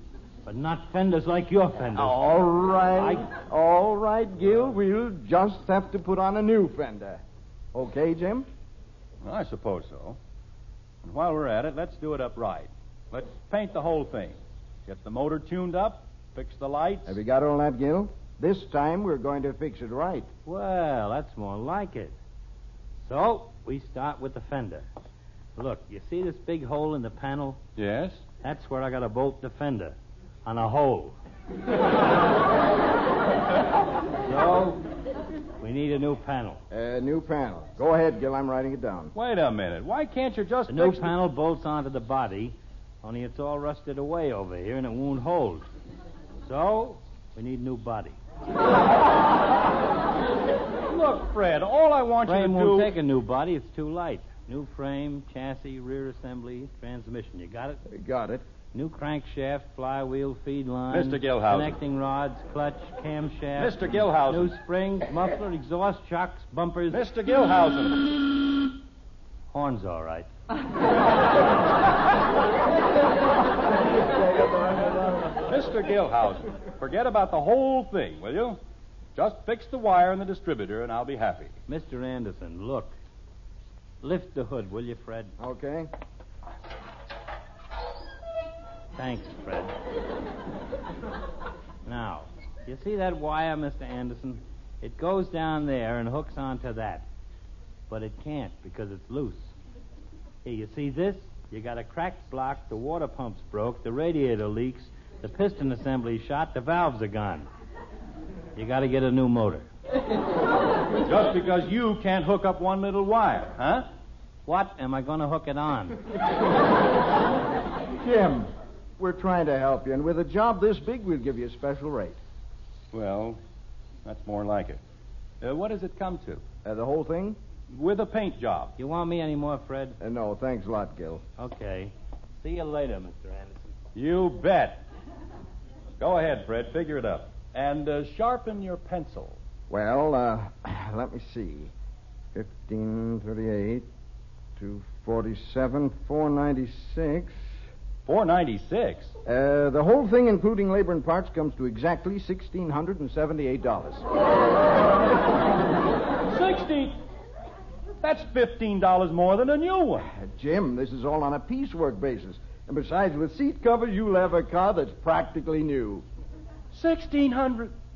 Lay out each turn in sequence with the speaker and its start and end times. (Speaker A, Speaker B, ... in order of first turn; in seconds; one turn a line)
Speaker A: 0.4-2.2
Speaker B: 1.9-7.2
Speaker A: 3.0-3.2
Speaker B: 7.7-8.4
Speaker C: 9.2-10.2
Speaker C: 11.0-17.2
Speaker B: 17.1-20.3
Speaker A: 20.4-22.1
Speaker A: 23.0-24.9
Speaker A: 25.6-27.6
Speaker C: 27.8-28.2
Speaker A: 28.4-31.1
Speaker A: 34.2-34.8
Speaker A: 35.6-36.6
Speaker B: 36.7-39.1
Speaker C: 39.1-41.1
Speaker A: 40.7-45.6
Speaker A: 46.4-48.2
Speaker C: 50.9-52.9
Speaker A: 52.2-57.8
Speaker B: 57.9-58.4
Speaker A: 58.7-67.0
Speaker C: 60.9-61.8
Speaker C: 63.5-64.6
Speaker C: 66.9-68.0
Speaker A: 69.5-70.3
Speaker B: 74.7-74.9
Speaker C: 75.4-78.6
Speaker C: 79.1-81.5
Speaker A: 81.7-82.9
Speaker A: 84.0-85.3
Speaker B: 85.4-85.9
Speaker A: 88.9-89.7
Speaker A: 91.8-97.1
Speaker A: 97.9-99.5
Speaker A: 100.4-107.5
Speaker A: 108.5-109.7
Speaker C: 111.0-113.9
Speaker A: 114.5-116.0
Speaker B: 118.0-122.2
Speaker C: 122.9-123.4
Speaker C: 124.0-124.8
Speaker C: 125.4-126.4
Speaker B: 126.6-127.4
Speaker C: 127.7-128.7
Speaker A: 128.8-130.0
Speaker B: 130.0-131.2
Speaker A: 131.4-133.7
Speaker C: 133.9-134.8
Speaker C: 136.0-139.4
Speaker B: 139.7-141.7
Speaker B: 142.3-143.9
Speaker B: 144.6-147.4
Speaker C: 148.0-149.1
Speaker B: 149.2-154.1
Speaker C: 156.3-157.0
Speaker C: 158.0-160.1
Speaker B: 160.1-166.0
Speaker C: 166.7-167.7